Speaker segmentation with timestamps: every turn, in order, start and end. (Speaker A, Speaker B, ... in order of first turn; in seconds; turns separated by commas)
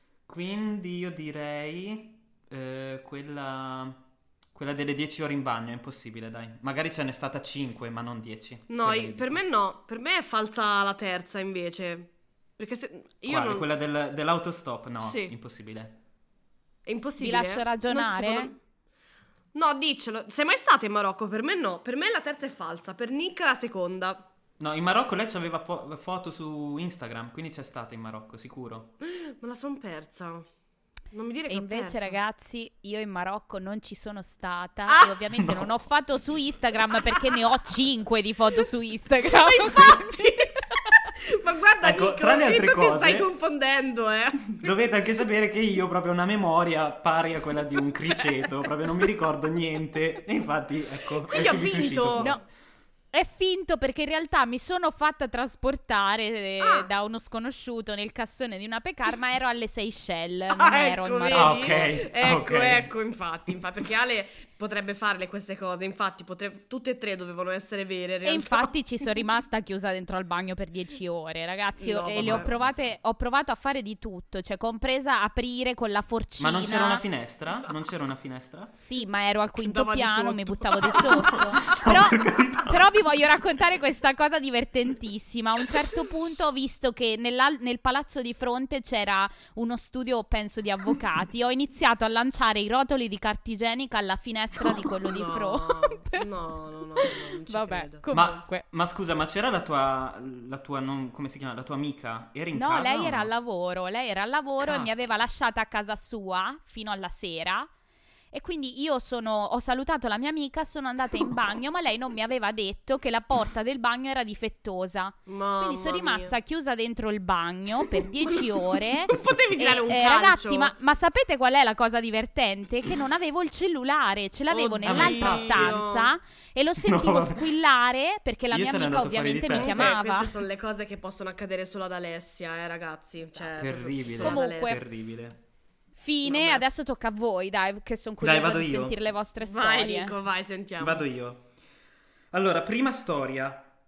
Speaker A: 0.3-4.0, Speaker A: 4.5-9.4, Speaker B: 8.7-13.7, Speaker A: 13.3-16.0, Speaker B: 15.0-15.3, Speaker B: 16.9-18.5, Speaker C: 17.2-18.5, Speaker B: 19.5-24.3, Speaker A: 24.6-28.9, Speaker B: 29.0-30.5, Speaker B: 31.1-32.2, Speaker C: 31.5-40.9, Speaker B: 34.9-35.2, Speaker A: 35.3-35.7, Speaker B: 39.3-44.7, Speaker A: 41.8-43.3, Speaker A: 44.6-52.4, Speaker B: 48.1-48.5, Speaker B: 51.3-52.4, Speaker C: 52.2-52.4, Speaker C: 53.1-61.9, Speaker B: 60.5-68.7, Speaker A: 61.3-62.9, Speaker C: 68.2-77.0, Speaker B: 71.8-72.5, Speaker A: 72.2-72.8, Speaker A: 76.4-78.7, Speaker C: 78.8-96.2, Speaker B: 79.6-81.6, Speaker A: 81.3-82.9, Speaker B: 94.7-98.1, Speaker C: 97.0-98.7, Speaker A: 98.1-103.3, Speaker C: 102.5-107.7, Speaker A: 104.6-104.9, Speaker C: 108.3-130.4, Speaker B: 115.3-116.3, Speaker B: 118.0-120.7, Speaker B: 124.5-126.1, Speaker A: 124.8-125.8, Speaker A: 126.8-127.5, Speaker A: 128.5-130.0, Speaker B: 129.5-134.8, Speaker A: 133.6-135.4, Speaker C: 134.1-134.8, Speaker C: 136.0-140.1, Speaker B: 136.2-136.6, Speaker A: 138.2-139.0, Speaker B: 139.4-141.1, Speaker A: 140.8-141.4, Speaker A: 142.3-143.7